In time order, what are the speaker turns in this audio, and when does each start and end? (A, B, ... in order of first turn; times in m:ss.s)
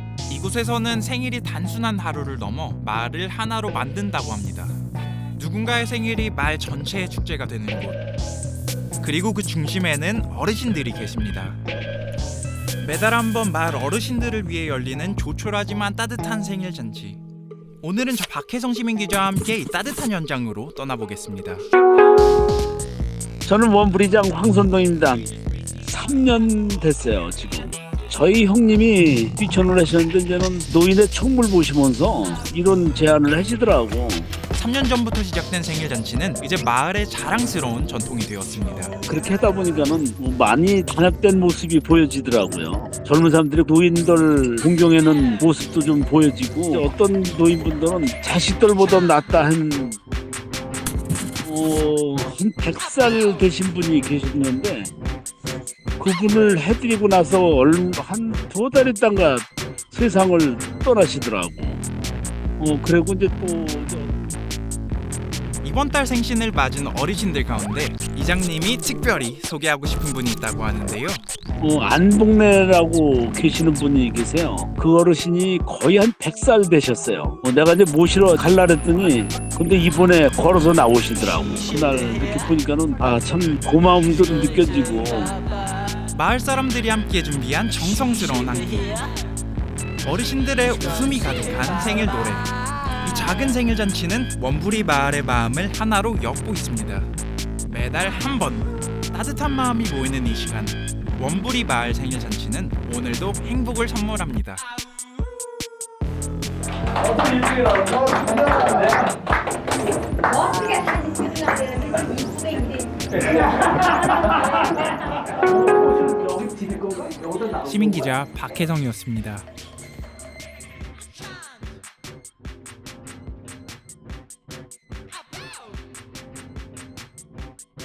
0:00.3-0:04.8 A
0:05.3-0:08.0 A
0:09.0-0:11.6 A
0:12.8-0:17.2 A
0:17.8-0:21.6 A
0:23.4-0:25.3 B
0:25.8-0:34.3 B
0:34.5-0:39.0 A
0:39.1-0:50.0 B
0:51.4-0:54.9 B
0:56.0-1:01.8 B
1:02.6-1:04.2 B
1:05.6-1:11.2 A
1:11.6-1:25.4 B
1:26.1-1:29.0 A
1:30.0-1:37.1 A
1:37.6-1:44.6 A
1:47.5-1:48.9 B
1:50.2-1:53.4 C
1:55.7-1:57.6 B
1:57.6-1:59.5 A